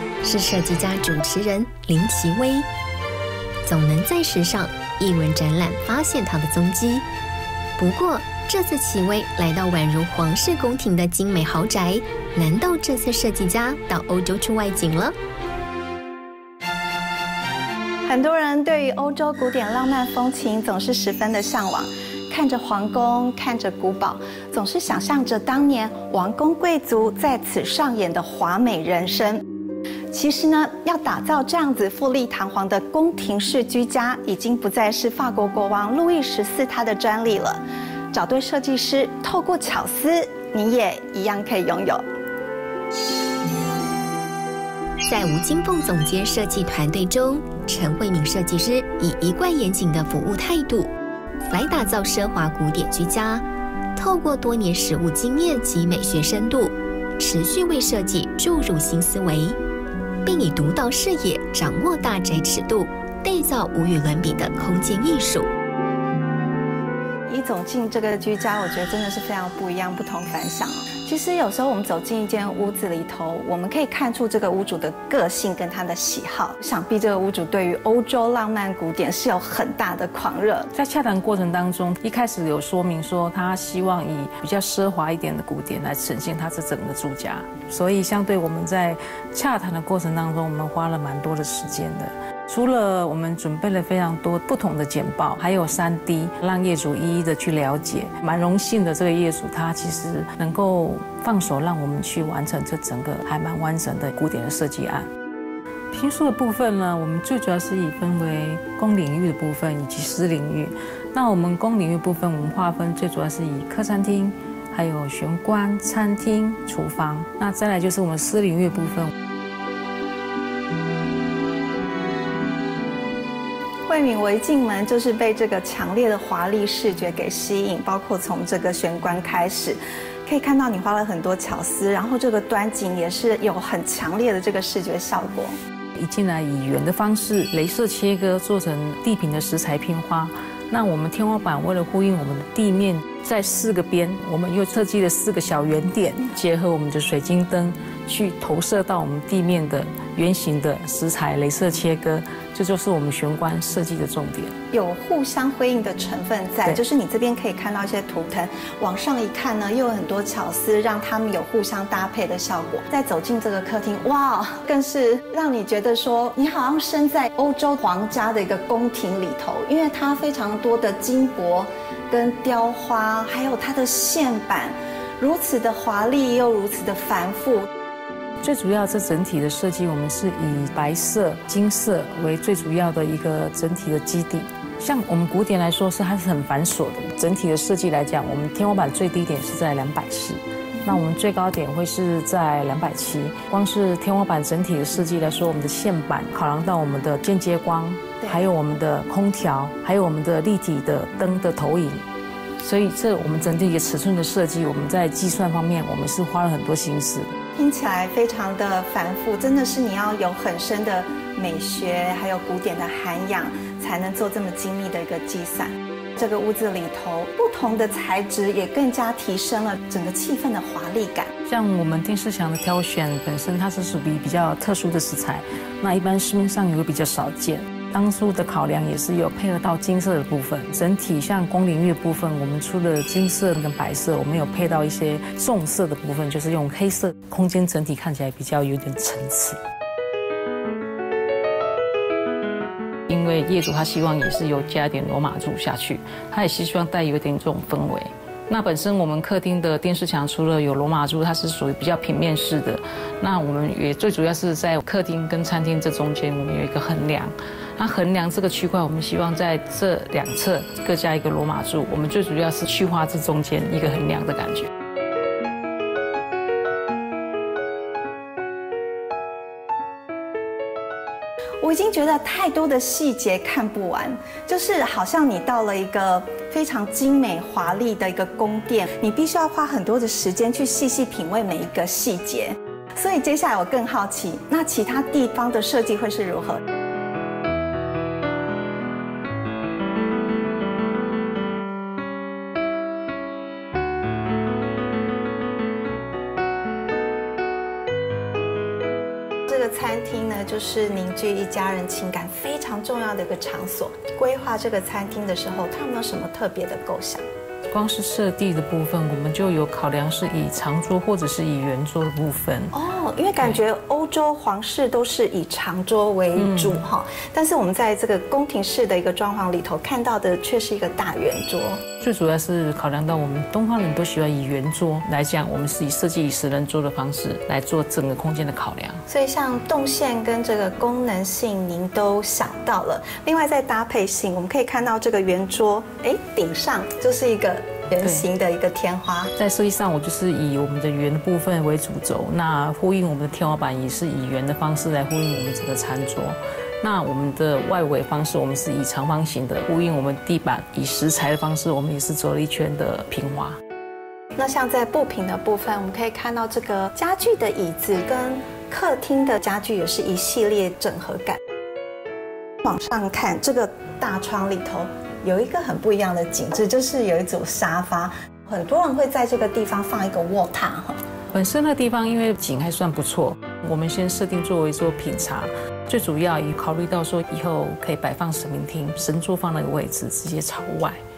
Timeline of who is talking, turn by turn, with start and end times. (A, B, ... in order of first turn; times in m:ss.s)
0:00.2-0:02.7 A
0:03.7-0:07.1 A
0:07.8-0:15.2 A
0:18.1-0:29.4 B
0:30.1-0:37.6 B
0:38.1-0:42.0 B
0:45.0-0:50.9 A
0:51.5-0:53.4 A
0:54.0-0:59.6 A
1:00.2-1:05.5 A
1:07.3-1:20.7 B
1:20.8-1:45.1 C
1:45.9-1:59.1 C
2:03.9-2:15.5 B
2:16.0-2:34.5 C
2:34.7-2:57.7 B
2:58.4-3:22.0 C
3:22.6-3:27.3 C
3:27.6-3:41.3 B
3:41.5-3:59.6 C
4:03.1-4:24.7 C
4:31.6-4:46.6 B
4:59.5-5:07.2 B
5:07.7-5:12.7 C
5:12.7-5:21.8 B
5:16.4-5:16.8 C
5:22.0-5:29.0 C
5:29.1-5:39.3 B
5:38.0-5:38.3 C
5:39.4-5:53.6 C
5:54.4-6:01.4 B
6:02.6-6:11.0 B
6:11.3-6:21.0 C